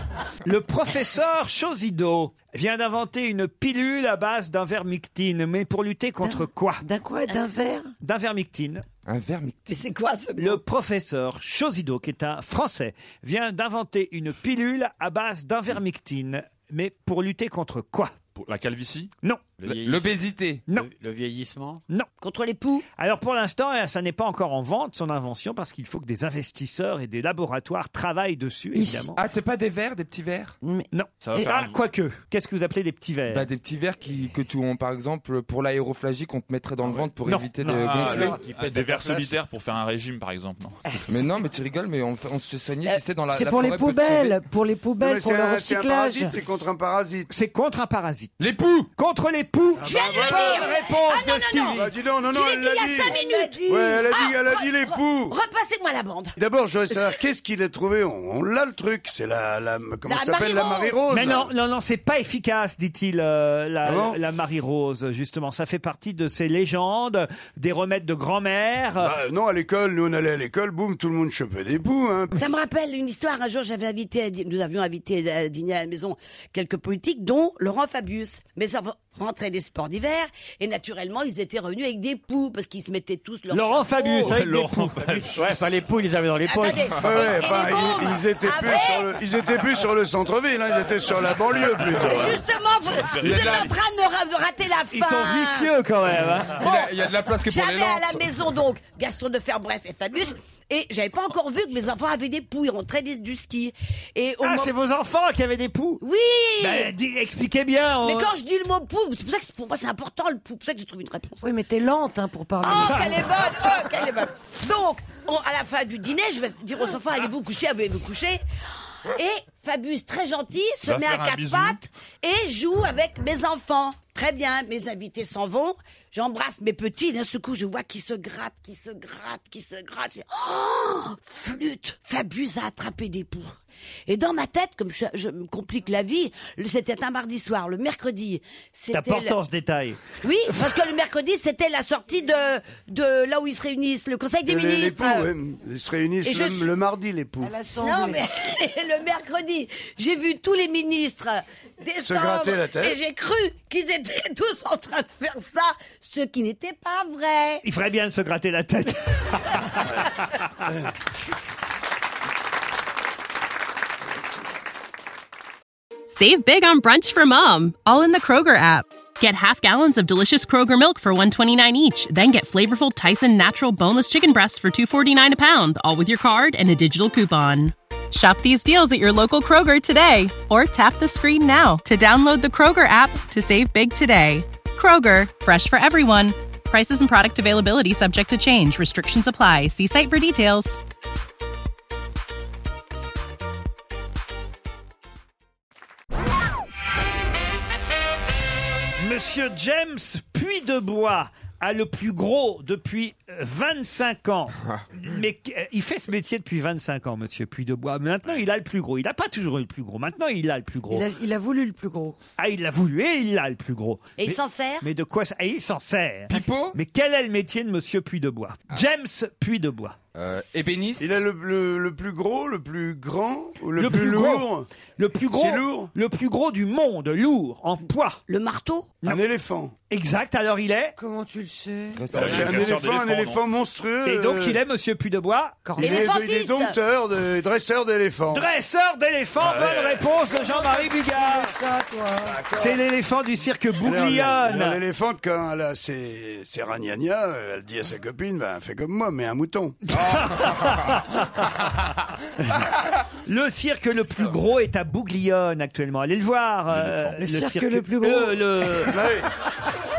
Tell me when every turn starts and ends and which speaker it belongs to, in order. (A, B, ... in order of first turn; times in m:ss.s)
0:00.4-0:06.8 A
0:06.2-0:07.9 B
0:08.0-0:08.8 A
0:09.0-0:09.6 C
0:09.6-0:10.6 D
0:10.4-0:18.1 A
0:18.3-0:19.1 E
0:19.6-0:21.8 F
0:19.6-0:20.6 C
0:22.2-0:22.8 D
0:23.0-0:29.2 A
0:28.7-0:29.1 B
0:29.1-0:30.6 C
0:30.6-0:30.9 B
0:30.9-0:33.5 A
0:31.2-0:31.8 E
0:33.3-0:38.4 C
0:37.2-0:38.3 A
0:37.7-0:40.8 E
0:38.3-0:39.3 F
0:41.1-0:44.4 C
0:43.3-0:46.3 B
0:45.0-0:47.3 G
0:47.3-0:48.4 A
0:48.4-0:48.9 C
0:49.0-0:51.9 A
0:49.8-0:50.9 G
0:49.8-0:56.4 D
0:51.7-0:55.4 G
0:53.0-0:54.1 B
0:56.4-1:01.5 G
1:00.0-1:01.0 D
1:01.1-1:09.1 A
1:03.8-1:04.2 G
1:09.0-1:12.5 G
1:12.3-1:24.3 D
1:23.5-1:25.3 A
1:24.2-1:25.8 E
1:25.1-1:27.1 F
1:26.4-1:29.1 D
1:27.0-1:32.4 G
1:32.0-1:35.7 D
1:33.0-1:33.7 E
1:33.2-1:33.7 C
1:34.9-1:36.6 A
1:36.6-1:38.4 C
1:36.6-1:44.7 D
1:44.4-1:46.0 A
1:46.0-1:46.9 D
1:46.6-1:48.3 A
1:48.0-1:51.4 D
1:51.4-1:53.5 B
1:52.6-1:58.4 D
1:59.0-2:13.6 D
2:00.8-2:01.8 E
2:14.1-2:19.4 D
2:18.9-2:20.7 A
2:20.2-2:25.3 D
2:24.4-2:27.5 G
2:26.2-2:26.7 D
2:27.4-2:28.3 B
2:27.8-2:37.6 D
2:32.0-2:33.0 G
2:37.6-2:40.1 A
2:46.1-3:10.8 H
3:19.0-3:31.1 A
3:30.9-3:32.2 B
3:32.4-3:40.0 A
3:34.2-3:34.9 D
3:36.3-3:36.8 C
3:40.1-3:41.2 C
3:41.0-3:44.7 G
3:43.8-3:48.2 A
3:45.3-3:45.9 G
3:48.3-3:49.0 D
3:49.0-3:49.7 G
3:49.9-3:50.9 A
3:51.0-3:52.1 B
3:51.9-3:52.7 C
3:52.1-3:54.6 G
3:52.1-3:53.4 E
3:54.0-3:55.7 A
3:55.6-3:56.1 B
3:55.8-3:58.4 G
3:55.8-3:56.8 D
3:58.3-4:01.5 A
3:59.4-4:00.1 G
4:00.3-4:02.4 B
4:02.2-4:02.8 G
4:02.5-4:04.8 A
4:03.8-4:09.8 G
4:09.9-4:11.4 A
4:10.0-4:11.0 C
4:13.2-4:19.0 A
4:17.2-4:18.8 B
4:18.8-4:19.3 G